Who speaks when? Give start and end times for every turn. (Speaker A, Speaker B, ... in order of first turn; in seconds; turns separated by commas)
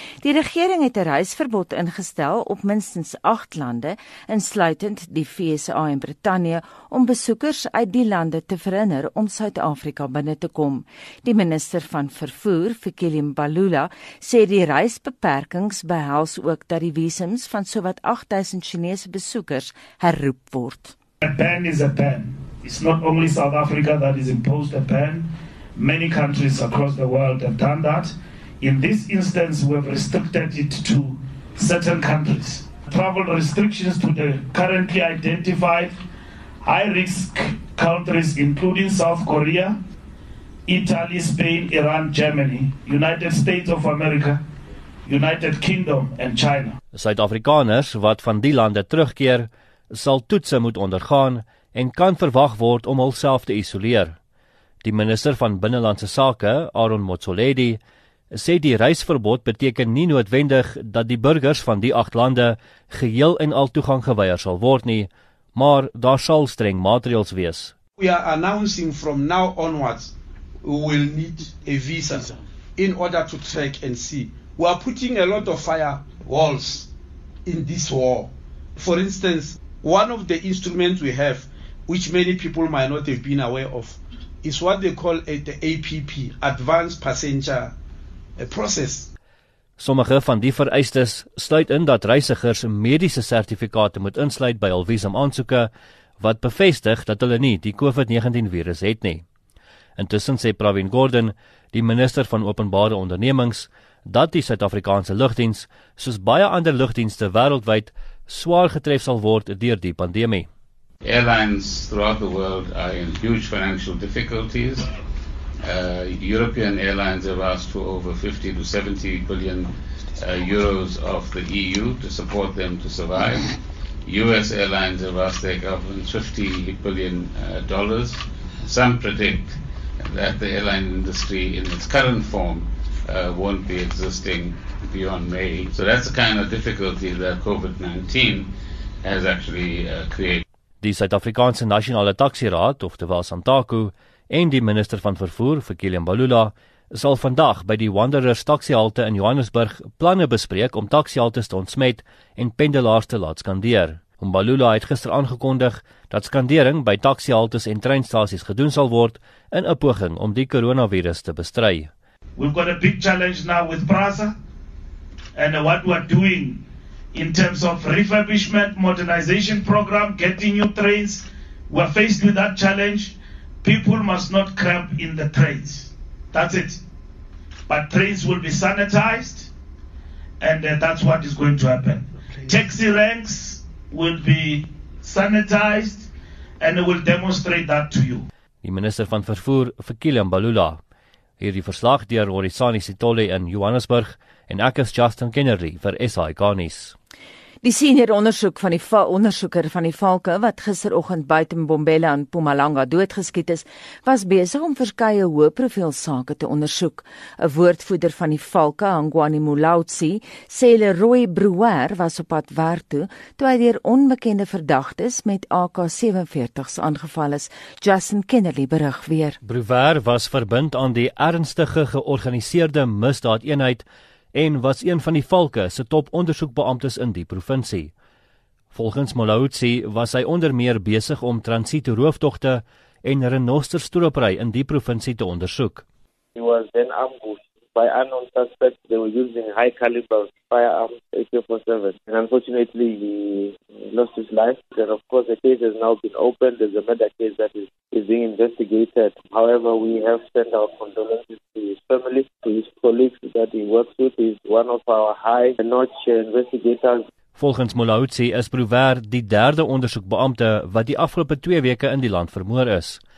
Speaker A: 0.2-20.9, Speaker B: 21.2-36.0, Speaker B: 36.6-39.8, Speaker B: 40.7-44.4, Speaker B: 45.0-46.8, Speaker C: 46.9-54.1, Speaker C: 54.8-57.8, Speaker C: 58.3-67.7, Speaker D: 68.0-76.9, Speaker D: 77.4-87.7, Speaker D: 88.4-89.1, Speaker C: 89.8-99.2, Speaker C: 100.0-110.5, Speaker E: 111.0-114.9, Speaker E: 115.6-138.5, Speaker E: 139.0-140.4, Speaker C: 140.8-161.9, Speaker B: 162.4-164.3, Speaker B: 165.3-166.6, Speaker B: 167.1-176.8, Speaker B: 177.7-179.5, Speaker B: 180.4-186.1, Speaker B: 186.6-188.3, Speaker C: 188.6-190.8, Speaker C: 191.4-196.9, Speaker A: 197.6-219.4, Speaker C: 219.4-227.9, Speaker C: 228.7-235.8, Speaker F: 236.3-257.0, Speaker C: 257.4-263.0